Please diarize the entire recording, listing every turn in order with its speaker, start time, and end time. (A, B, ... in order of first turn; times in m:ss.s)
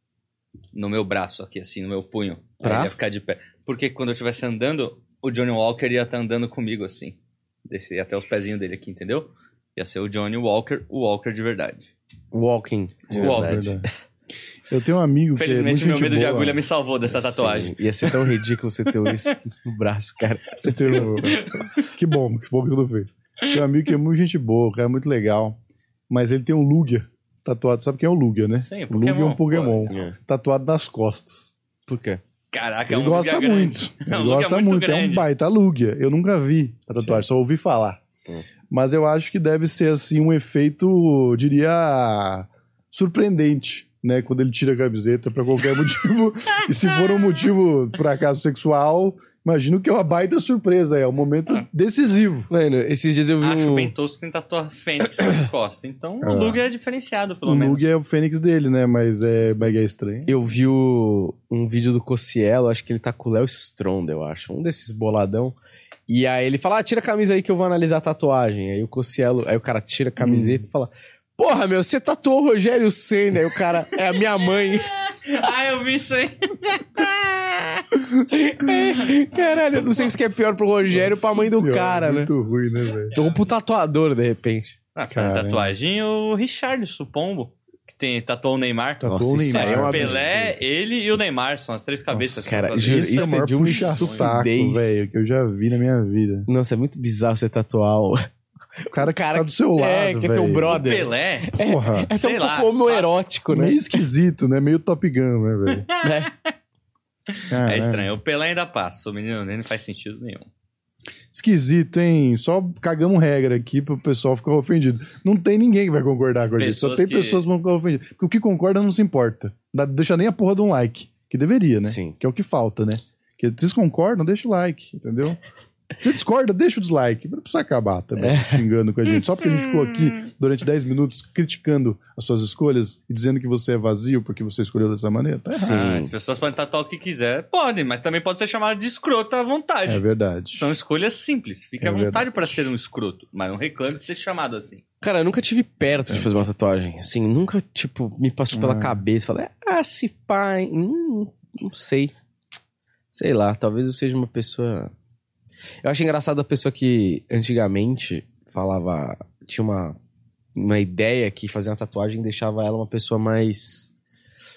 0:00.7-0:11.9 A
0:02.6-0:02.9 B
0:12.3-0:13.8 B
0:13.1-0:13.8 C
0:13.2-0:13.7 A
0:14.7-0:16.6 C
0:15.4-0:18.1 A
0:17.1-0:21.4 B
0:20.6-0:25.6 C
0:20.9-0:21.9 A
0:26.1-0:31.5 C
0:28.6-0:29.9 A
0:29.9-0:30.1 B
0:31.9-0:32.2 B
0:32.5-0:35.2 A
0:32.9-0:38.0 C
0:38.7-0:52.5 C
0:52.5-0:53.9 B
0:53.4-0:57.9 A
0:56.2-0:56.6 C
0:57.4-1:00.3 C
1:00.3-1:05.6 B
1:06.1-1:14.9 B
1:10.2-1:10.6 C
1:15.0-1:17.3 A
1:18.3-1:22.3 B
1:19.1-1:20.1 A
1:20.9-1:23.2 C
1:23.1-1:24.8 B
1:25.0-1:34.3 A
1:25.1-1:25.7 C
1:29.0-1:30.3 C
1:29.1-1:30.5 B
1:32.1-1:36.5 C
1:32.4-1:35.0 B
1:36.5-1:38.3 B
1:38.8-1:43.8 B
1:38.9-1:40.8 C
1:40.7-1:41.6 A
1:41.6-1:42.1 C
1:42.1-1:43.2 A
1:43.5-1:45.9 C
1:45.9-1:46.5 A
1:46.0-1:46.3 B
1:47.4-1:50.5 A
1:47.5-1:48.1 C
1:51.3-2:05.4 C
1:56.6-1:57.4 A
2:01.8-2:02.2 B
2:06.0-2:15.9 C
2:08.2-2:08.6 B
2:15.6-2:16.1 B
2:15.6-2:20.0 A
2:19.8-2:20.7 C
2:20.5-2:24.8 A
2:21.8-2:22.3 C
2:25.0-2:32.1 B
2:28.5-2:29.0 C
2:33.1-2:34.9 B
2:35.8-2:40.0 B
2:40.5-2:43.9 B